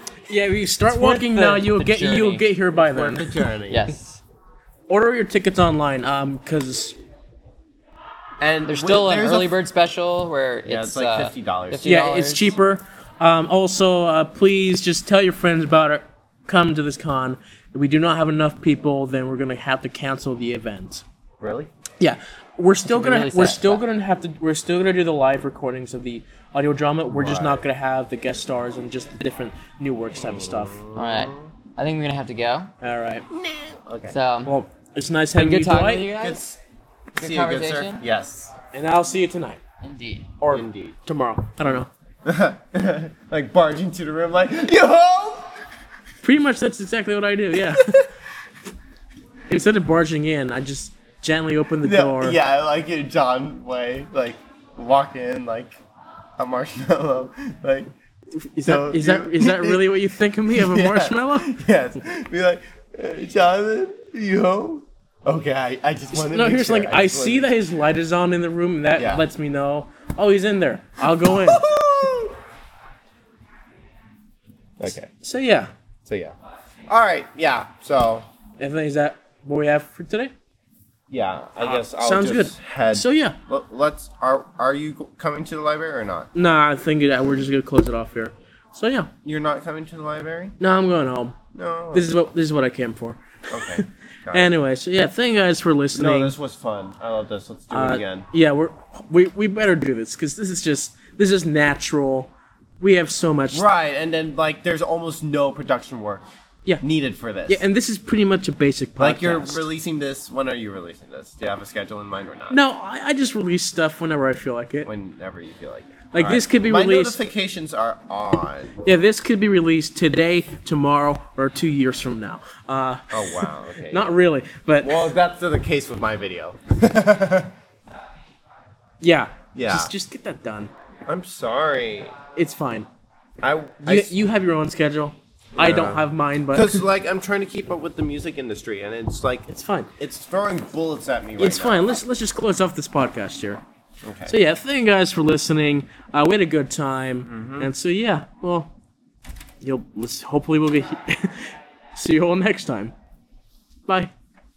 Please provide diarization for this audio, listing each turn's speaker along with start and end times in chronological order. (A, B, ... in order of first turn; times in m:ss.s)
0:00.3-0:03.3 A
0:00.9-0:02.4 B
0:02.8-0:03.8 C
0:03.7-0:04.2 B
0:04.9-0:07.0 A
0:08.4-0:09.5 C
0:08.6-0:12.5 B
0:10.7-0:11.8 C
0:11.8-0:21.0 A
0:21.4-0:21.7 C
0:22.0-0:30.8 A
0:22.8-0:23.8 B
0:27.1-0:27.6 C
0:30.2-0:31.5 C
0:30.9-0:32.7 B
0:32.8-0:33.2 A
0:33.3-0:34.2 C
0:34.1-0:34.5 B
0:34.4-0:36.1 A
0:35.4-0:36.4 B
0:36.2-0:36.6 C
0:37.2-0:38.5 C
0:37.2-0:38.0 B
0:38.7-0:39.6 A
0:39.8-0:40.3 B
0:40.4-0:41.9 A
0:40.5-0:41.0 C
0:42.2-0:45.5 C
0:46.2-0:48.0 A
0:49.5-0:52.4 A
0:51.8-0:55.8 C
0:56.4-0:57.9 C
0:58.4-1:01.6 A
0:58.6-1:07.5 C
1:06.1-1:11.7 A
1:09.0-1:09.2 C
1:11.3-1:12.3 C
1:14.8-1:15.1 C
1:15.2-1:15.7 A
1:16.1-1:16.3 C
1:16.9-1:18.2 C
1:18.6-1:20.3 A
1:21.1-1:26.3 C
1:21.6-1:23.4 A
1:26.3-1:29.1 A
1:29.2-1:30.5 C
1:30.6-1:31.4 A
1:31.5-1:32.1 C
1:31.9-1:36.3 A
1:33.5-1:34.5 C
1:35.9-1:38.3 C
1:37.7-1:43.6 A
1:43.5-1:46.2 C
1:46.8-1:47.6 C
1:47.5-1:49.6 A
1:49.0-1:52.6 C
1:52.5-1:54.9 A
1:54.8-1:58.8 C
1:56.1-1:57.2 A
1:58.8-2:05.1 A
2:03.1-2:04.1 C
2:04.8-2:07.5 C
2:09.0-2:10.7 A
2:09.5-2:09.9 C
2:11.1-2:12.1 C
2:12.4-2:12.9 A
2:13.4-2:14.1 C
2:13.8-2:16.8 A
2:15.6-2:22.0 C
2:19.5-2:19.9 A
2:21.4-2:23.6 A
2:24.0-2:24.3 C
2:24.3-2:28.7 A
2:27.2-2:27.7 C
2:29.6-2:32.9 A